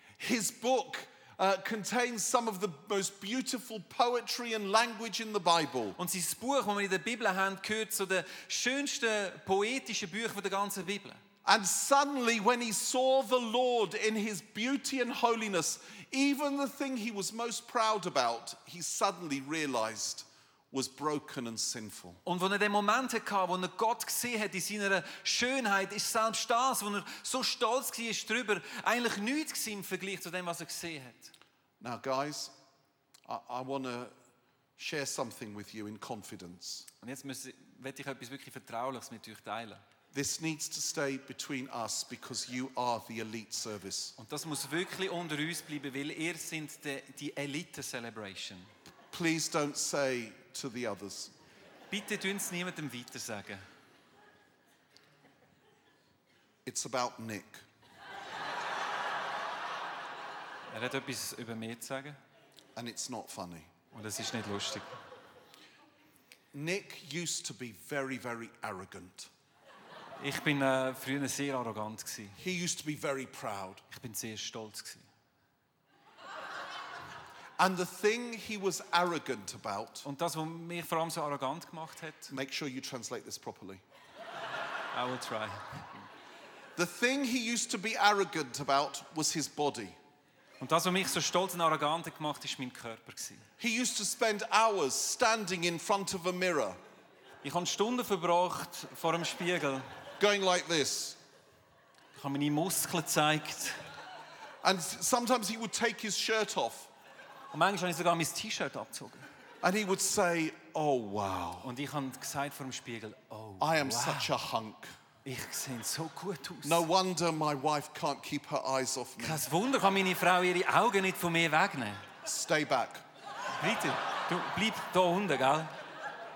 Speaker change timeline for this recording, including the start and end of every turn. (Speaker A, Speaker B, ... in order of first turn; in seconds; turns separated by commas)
Speaker A: 0.2-6.0, Speaker B: 6.0-11.2, Speaker A: 11.4-22.2, Speaker B: 22.2-31.3, Speaker A: 31.8-32.5, Speaker A: 33.2-34.1, Speaker A: 34.8-36.9, Speaker B: 37.0-39.8, Speaker A: 40.1-44.1, Speaker B: 44.2-48.7, Speaker A: 49.1-51.3, Speaker B: 51.9-53.6, Speaker A: 56.6-57.6, Speaker B: 60.7-62.2, Speaker A: 62.8-63.7, Speaker B: 63.9-65.0, Speaker A: 66.5-69.3, Speaker B: 70.2-72.4, Speaker A: 72.4-73.8, Speaker B: 73.9-75.1, Speaker A: 77.6-80.0, Speaker B: 80.0-82.3, Speaker A: 82.3-83.8, Speaker B: 84.9-86.1, Speaker A: 86.8-90.0, Speaker B: 90.6-93.5, Speaker A: 93.6-96.8, Speaker B: 97.4-99.9, Speaker A: 100.2-101.2, Speaker B: 102.1-103.8, Speaker A: 104.6-106.9, Speaker B: 107.5-109.2, Speaker A: 109.6-111.7, Speaker B: 111.6-114.3, Speaker A: 113.6-114.9, Speaker B: 115.2-116.8, Speaker A: 116.6-119.4, Speaker B: 119.2-122.0, Speaker A: 122.2-123.0, Speaker B: 123.6-125.7